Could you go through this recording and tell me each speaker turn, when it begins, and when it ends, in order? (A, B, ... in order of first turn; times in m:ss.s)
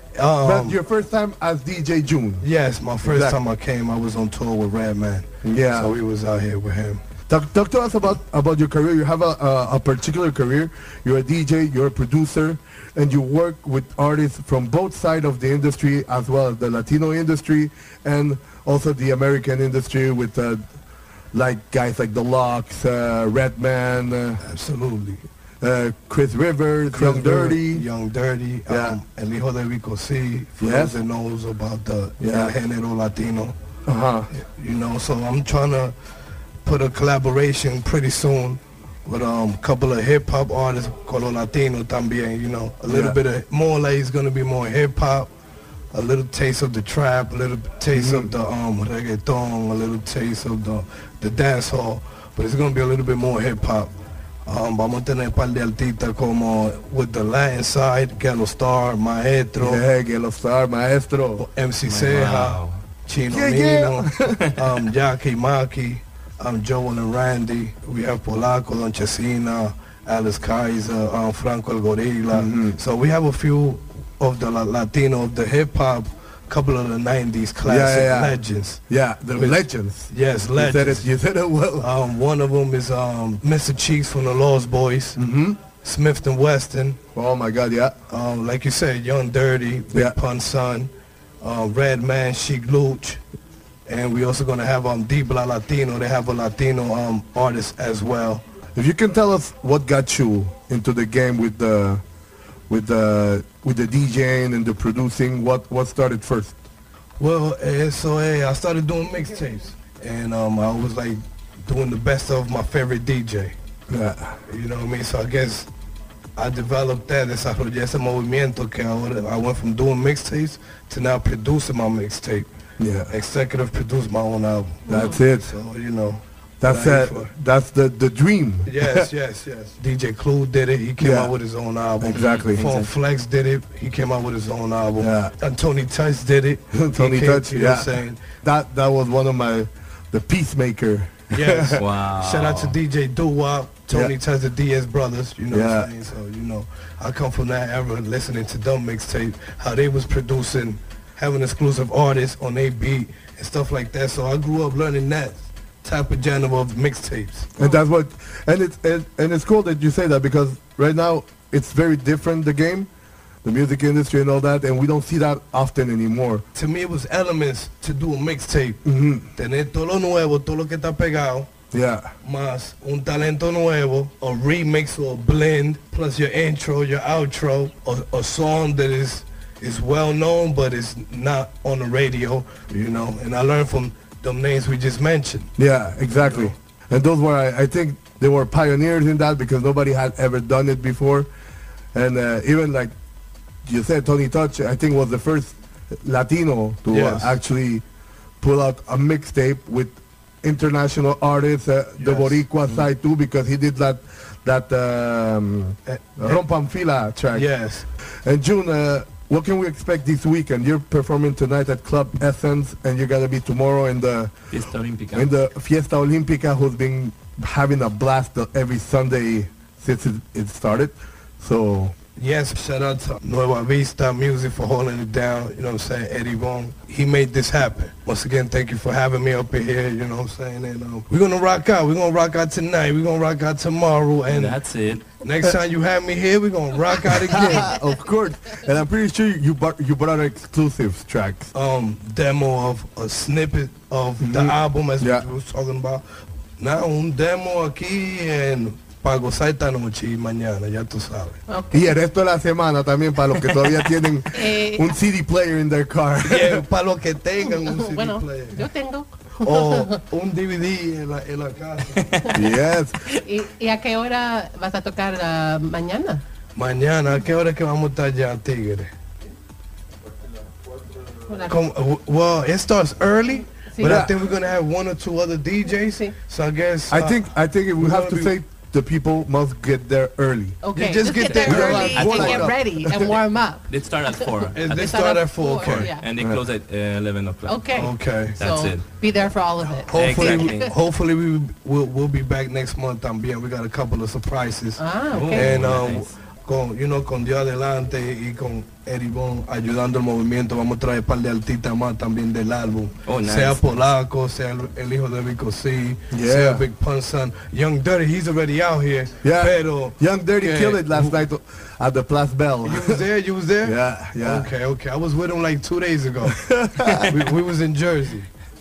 0:00.2-0:00.8 A
0:00.4-0:02.4 B
0:02.4-0:07.0 A
0:03.0-0:03.4 B
0:05.4-0:05.9 B
0:07.3-0:20.6 B
0:21.3-0:24.4 B
0:24.4-0:25.2 A
0:25.6-0:27.8 B
0:26.9-0:33.5 A
0:28.7-0:29.0 B
0:30.6-0:31.0 B
0:32.2-0:32.5 B
0:33.8-0:34.3 B
0:34.3-0:35.9 A
0:36.6-0:45.3 A
0:42.9-0:43.2 B
0:45.9-0:53.9 A
0:47.9-0:48.3 B
0:54.4-0:59.8 A
0:59.6-1:01.4 B
1:01.4-1:21.1 A
1:01.8-1:02.8 C
1:03.3-1:04.5 B
1:12.3-1:12.8 B
1:17.6-1:18.4 B
1:18.9-1:21.9 B
1:21.8-1:25.2 A
1:25.1-1:25.6 B
1:25.8-1:27.0 A
1:27.1-1:27.9 B
1:28.1-1:30.9 A
1:31.4-1:33.2 A
1:33.9-1:38.4 A
1:38.7-1:42.0 B
1:42.7-1:46.6 B
1:47.2-1:53.5 A
1:53.9-1:54.4 B
1:54.5-1:55.7 A
1:56.4-2:02.5 A
2:02.8-2:03.1 B
2:03.1-2:07.3 A
2:04.9-2:05.5 B
2:06.6-2:09.1 B
2:08.6-2:18.2 A
2:11.0-2:11.3 B
2:12.0-2:12.6 B
2:12.1-2:12.9 C
2:15.0-2:15.3 B
2:16.7-2:21.8 B
2:21.3-2:37.6 A
2:21.8-2:22.8 C
2:25.5-2:25.9 B
2:37.6-2:42.9 B
2:43.4-2:46.4 B
2:46.5-2:48.8 A
2:48.8-2:49.3 B
2:49.4-2:51.5 A
2:51.7-2:52.1 B
2:52.2-3:05.6 A
3:05.6-3:11.3 B
3:06.1-3:06.5 A
3:11.9-3:12.9 B
3:13.6-3:17.8 B
3:16.9-3:17.4 A
3:18.4-3:27.5 B
3:22.0-3:22.9 A
3:25.9-3:26.4 A
3:27.3-3:27.9 A
3:28.2-3:34.3 B
3:34.5-3:35.3 C
3:35.1-3:41.9 B
3:42.2-3:54.6 A
3:54.3-3:55.0 C
3:55.2-3:57.7 A
3:57.1-4:01.5 B
4:01.5-4:06.0 A
4:04.2-4:05.2 B
4:06.6-4:11.4 A
4:11.5-4:12.0 D
4:11.7-4:16.6 B
4:14.3-4:14.9 D
4:16.2-4:18.7 A
4:17.4-4:20.0 D
4:19.4-4:22.2 A
4:22.0-4:22.3 C
4:22.2-4:26.2 D
4:22.3-4:23.0 B
4:26.6-4:28.9 A
4:31.2-4:31.6 D
4:31.5-4:38.4 A
4:33.5-4:34.0 D
4:33.8-4:34.1 B
4:35.8-4:36.1 D
4:36.9-4:43.2 B
4:40.6-4:46.1 D
4:40.8-4:42.1 A
4:41.2-4:42.6 C
4:43.7-4:44.9 C
4:44.5-4:45.9 A
4:45.8-4:48.9 C
4:47.4-4:50.7 D
4:47.7-4:48.4 A
4:49.8-5:11.2 A
4:50.0-4:50.6 C
4:54.8-4:55.4 D
4:55.1-4:56.1 C
5:03.0-5:03.6 C
5:06.1-5:06.6 B
5:09.2-5:13.0 B
5:12.6-5:16.4 A
5:13.6-5:14.5 B
5:16.2-5:17.1 B
5:17.1-5:18.3 A